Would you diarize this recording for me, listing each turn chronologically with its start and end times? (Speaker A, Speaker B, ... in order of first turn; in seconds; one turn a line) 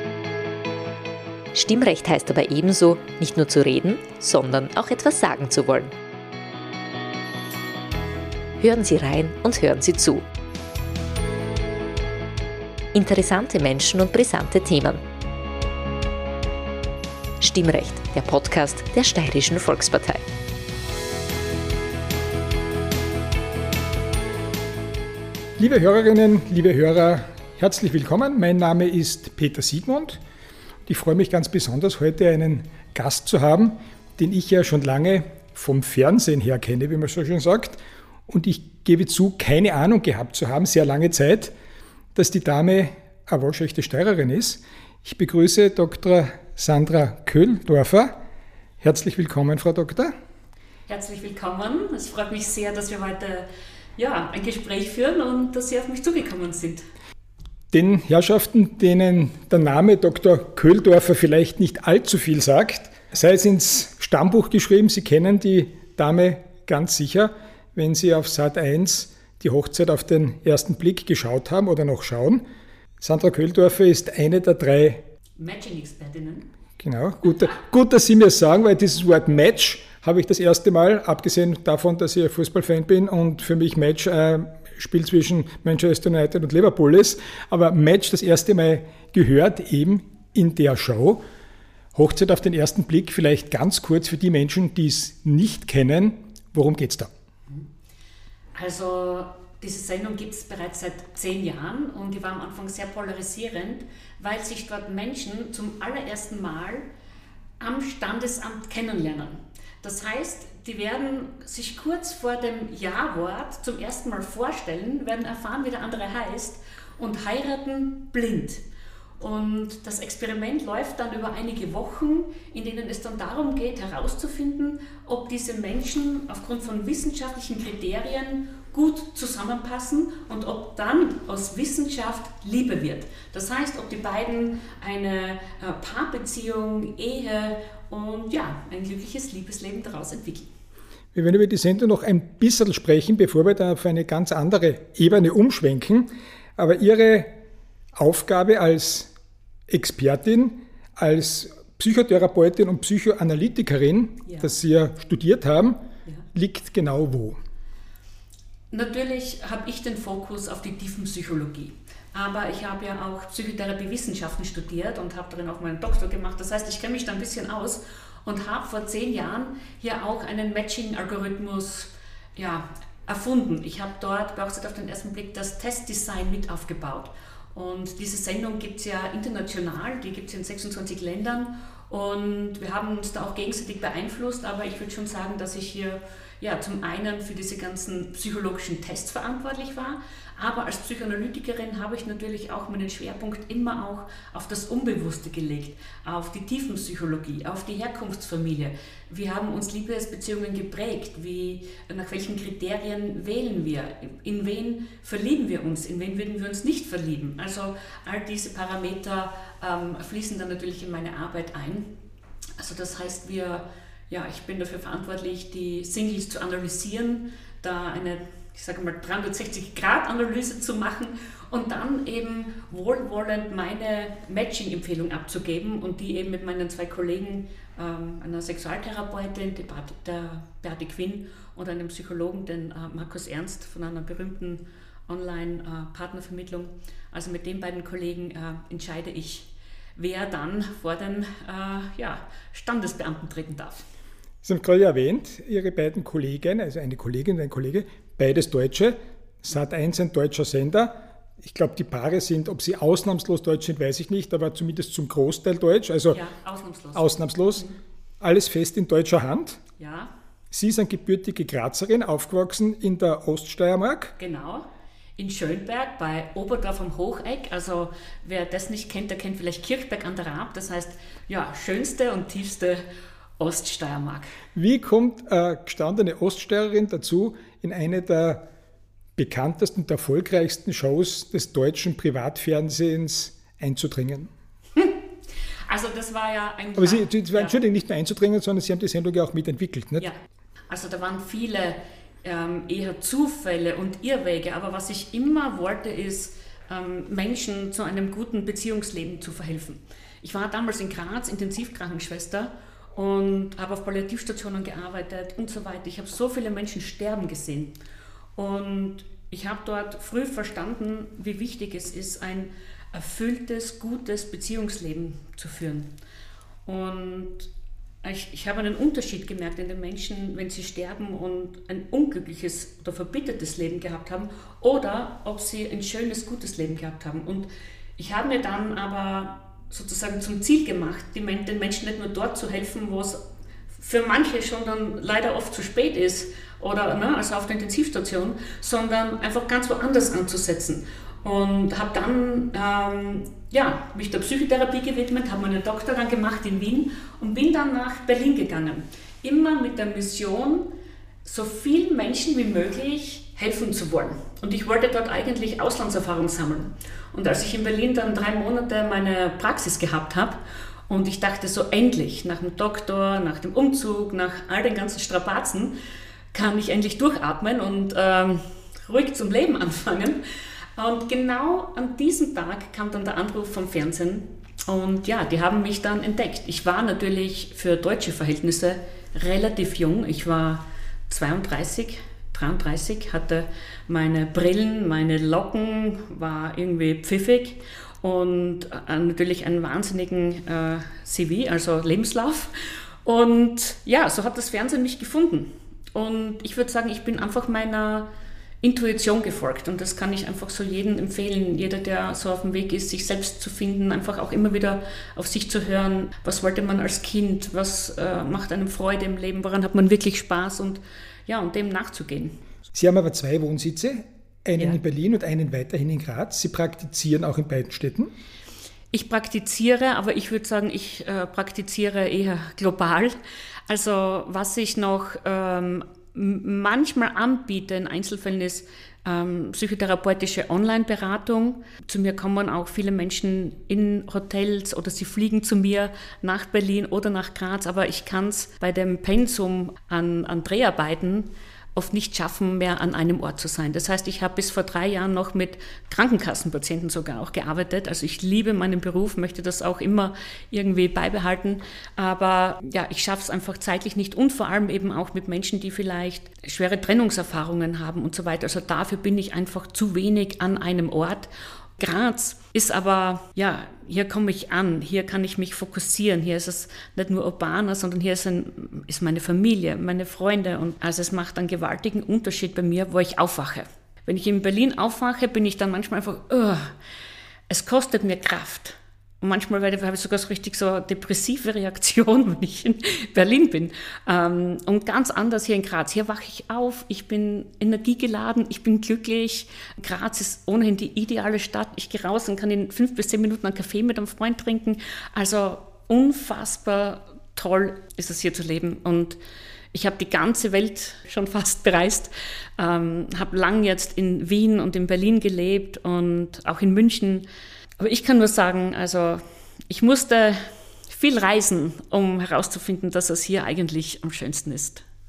Speaker A: 1.5-5.9
Speaker A: 8.6-10.3
Speaker A: 12.9-15.0
Speaker A: 17.4-20.2
Speaker B: 25.6-30.2
Speaker B: 30.9-41.5
Speaker B: 42.1-48.2
Speaker B: 48.8-50.1
Speaker C: 50.9-56.9
Speaker B: 57.7-72.5
Speaker B: 73.0-75.1
Speaker C: 75.4-76.5
Speaker B: 76.8-91.2
Speaker B: 92.0-97.1
Speaker C: 98.5-106.9
Speaker C: 107.6-118.6
Speaker C: 119.2-140.5
Speaker B: 141.1-147.4
Speaker B: 147.9-149.1
Speaker B: 149.7-155.8
Speaker C: 154.3-154.5
Speaker B: 156.3-157.4
Speaker C: 158.7-211.9
Speaker C: 212.6-243.8
Speaker B: 244.4-256.2
Speaker C: 256.1-257.8
Speaker B: 256.9-257.7
Speaker B: 258.2-259.6
Speaker C: 259.8-260.1
Speaker B: 260.5-264.2
Speaker C: 264.2-272.9
Speaker C: 273.4-274.3
Speaker B: 274.6-278.4
Speaker B: 279.2-284.3
Speaker C: 285.7-287.6
Speaker B: 286.8-290.1
Speaker C: 290.7-307.8
Speaker C: 308.4-315.9
Speaker C: 316.7-317.5
Speaker C: 318.0-333.2
Speaker C: 333.8-350.7
Speaker C: 351.2-365.8
Speaker C: 366.3-370.2
Speaker C: 370.8-392.5
Speaker C: 393.0-398.1
Speaker C: 398.6-412.4
Speaker B: 412.7-418.1
Speaker C: 418.9-423.2
Speaker C: 423.7-476.7
Speaker C: 477.5-499.2
Speaker C: 499.7-507.3
Speaker C: 507.8-514.9